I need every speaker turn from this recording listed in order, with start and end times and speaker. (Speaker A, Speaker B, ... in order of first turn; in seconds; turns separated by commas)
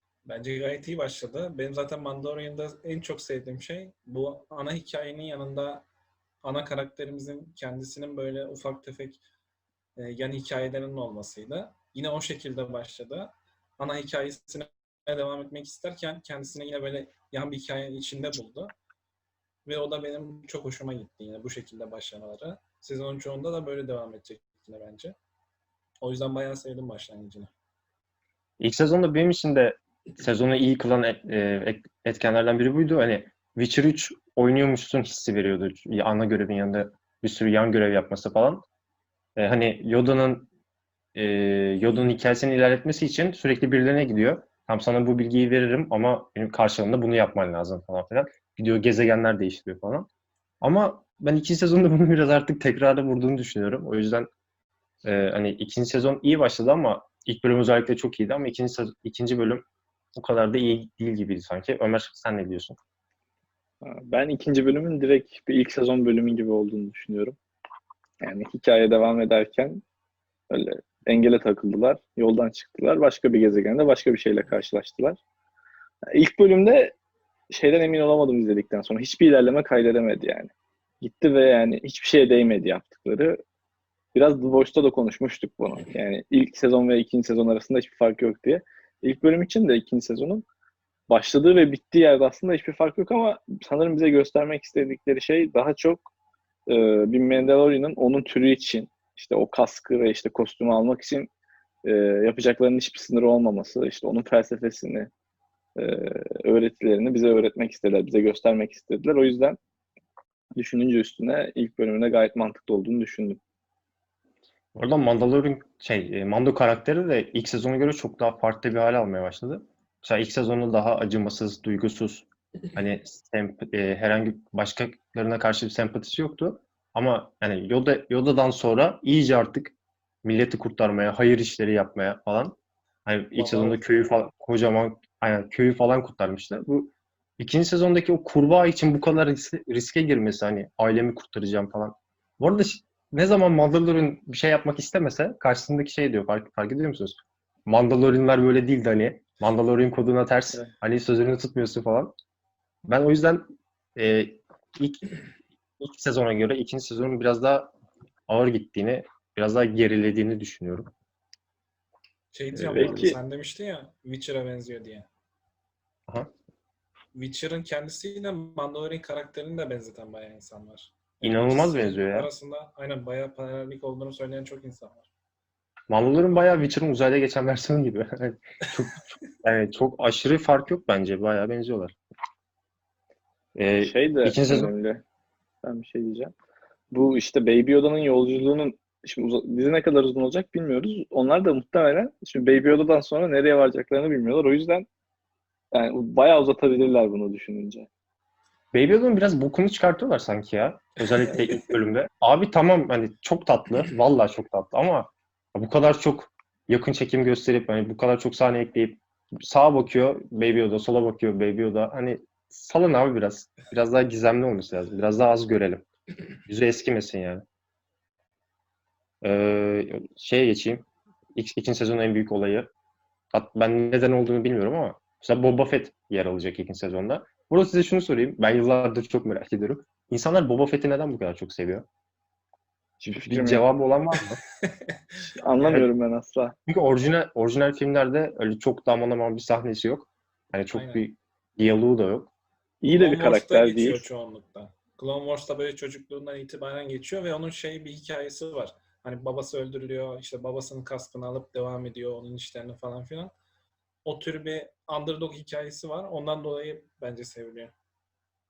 Speaker A: 0.3-5.9, Speaker A: 6.4-9.2, Speaker A: 10.0-18.7, Speaker A: 19.7-25.2, Speaker A: 26.0-27.5, Speaker B: 28.6-38.6, Speaker B: 39.4-40.5, Speaker B: 41.1-50.1, Speaker B: 50.6-54.3, Speaker B: 55.0-59.6, Speaker B: 60.2-62.8, Speaker C: 63.8-67.4, Speaker C: 68.2-69.8, Speaker C: 70.5-75.2, Speaker C: 76.1-77.0, Speaker C: 77.5-80.5, Speaker C: 81.0-83.4, Speaker C: 84.2-90.5, Speaker C: 91.1-96.1, Speaker C: 96.7-101.3, Speaker C: 101.8-105.1, Speaker C: 105.8-109.6, Speaker C: 110.6-113.4, Speaker B: 114.7-152.1, Speaker A: 133.4-133.8, Speaker B: 152.9-155.1, Speaker B: 155.8-157.7, Speaker B: 158.3-160.9, Speaker A: 162.3-165.1, Speaker B: 162.6-163.0, Speaker C: 162.7-163.2, Speaker A: 167.1-175.1, Speaker B: 171.2-172.3, Speaker B: 175.9-181.9, Speaker B: 183.6-184.7, Speaker C: 183.8-185.0, Speaker C: 185.6-186.3, Speaker C: 186.9-194.9, Speaker C: 195.7-197.9, Speaker B: 198.7-215.9, Speaker B: 216.5-217.4, Speaker B: 219.2-222.7, Speaker B: 223.3-231.8, Speaker C: 233.0-233.7, Speaker B: 233.2-234.4, Speaker A: 234.7-235.0, Speaker C: 235.4-236.6, Speaker B: 236.7-242.3, Speaker A: 240.7-241.1, Speaker C: 242.8-244.1, Speaker A: 242.9-253.3, Speaker A: 254.1-257.7